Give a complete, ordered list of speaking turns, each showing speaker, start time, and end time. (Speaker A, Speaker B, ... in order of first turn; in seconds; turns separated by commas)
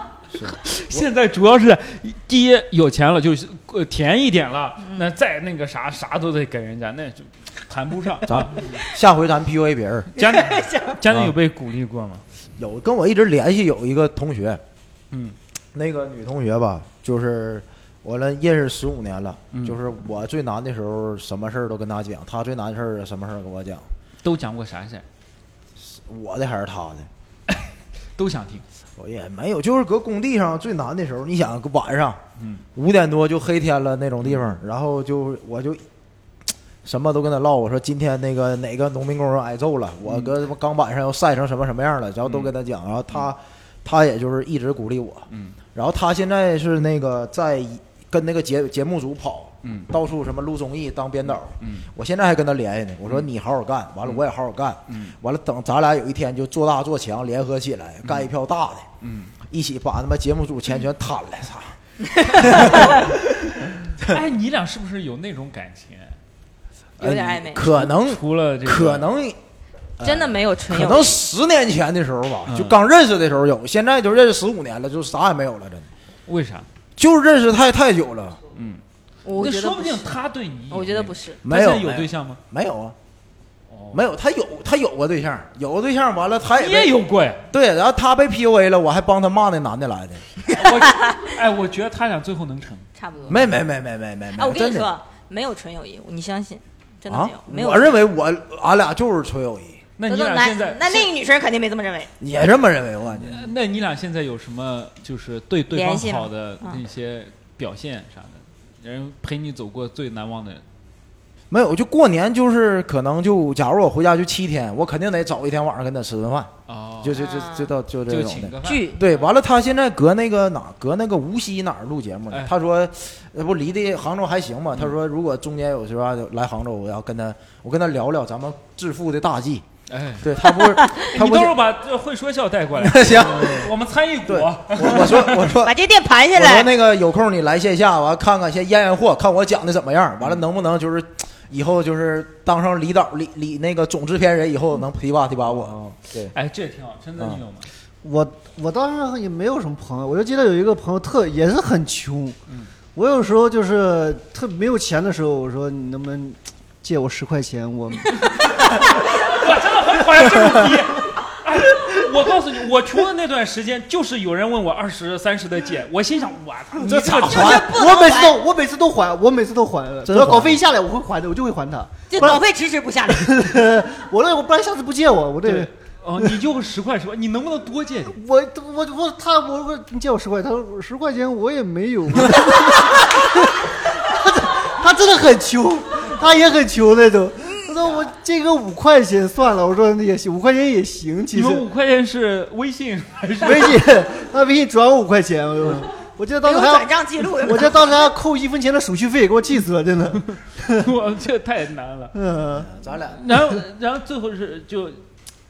Speaker A: 0.3-1.0, Speaker B: 0.6-8.8, Speaker A: 8.3-10.2, Speaker B: 10.2-12.2, Speaker C: 10.2-10.9, Speaker A: 11.1-11.3, Speaker A: 12.6-14.6, Speaker A: 15.7-23.9, Speaker B: 19.5-19.8, Speaker B: 24.2-25.0, Speaker A: 25.8-27.1, Speaker B: 27.5-28.6, Speaker A: 29.0-32.2, Speaker A: 32.8-35.8, Speaker A: 36.8-58.9, Speaker B: 42.2-42.5, Speaker B: 51.6-51.9, Speaker B: 54.9-55.1, Speaker B: 59.0-59.3, Speaker A: 59.5-61.8, Speaker C: 62.0-63.0, Speaker A: 62.3-63.0, Speaker B: 64.1-66.2, Speaker C: 67.0-67.7, Speaker A: 67.0-69.4, Speaker B: 67.5-69.1, Speaker A: 70.0-75.9, Speaker C: 70.0-71.2, Speaker B: 72.5-72.8, Speaker B: 76.3-76.7, Speaker A: 77.0-78.4, Speaker B: 78.5-78.8, Speaker C: 79.2-80.1, Speaker B: 79.3-82.4, Speaker C: 80.7-81.4, Speaker A: 81.4-83.0, Speaker B: 83.7-84.0, Speaker A: 83.9-86.9, Speaker B: 86.5-87.4, Speaker A: 87.5-90.4, Speaker B: 90.5-92.9, Speaker C: 90.9-91.2, Speaker C: 93.0-93.5, Speaker A: 93.3-94.9, Speaker C: 94.3-98.0, Speaker A: 97.1-99.8, Speaker B: 100.0-101.1, Speaker C: 100.1-102.1, Speaker A: 102.2-103.4, Speaker B: 103.2-110.6, Speaker C: 105.7-106.8, Speaker A: 111.5-129.6, Speaker B: 116.7-117.2, Speaker C: 117.2-117.7, Speaker B: 118.1-119.1, Speaker C: 118.6-119.0, Speaker B: 129.9-130.3, Speaker A: 130.2-131.6, Speaker B: 131.0-135.5, Speaker A: 132.8-133.7, Speaker A: 134.2-135.8, Speaker C: 135.6-136.7, Speaker A: 136.3-146.3, Speaker B: 145.5-147.7, Speaker D: 148.0-152.4, Speaker D: 152.9-158.5, Speaker B: 159.2-167.6, Speaker D: 166.8-172.4, Speaker C: 167.0-168.4, Speaker A: 167.1-167.6, Speaker A: 170.0-170.6, Speaker C: 172.1-173.3, Speaker D: 173.2-175.7, Speaker B: 175.4-178.2, Speaker D: 178.1-191.6, Speaker C: 187.4-187.7, Speaker B: 191.3-193.9, Speaker D: 193.4-200.9, Speaker C: 196.4-198.1, Speaker B: 200.7-202.1, Speaker D: 202.1-202.7, Speaker A: 202.5-203.4, Speaker B: 203.1-205.0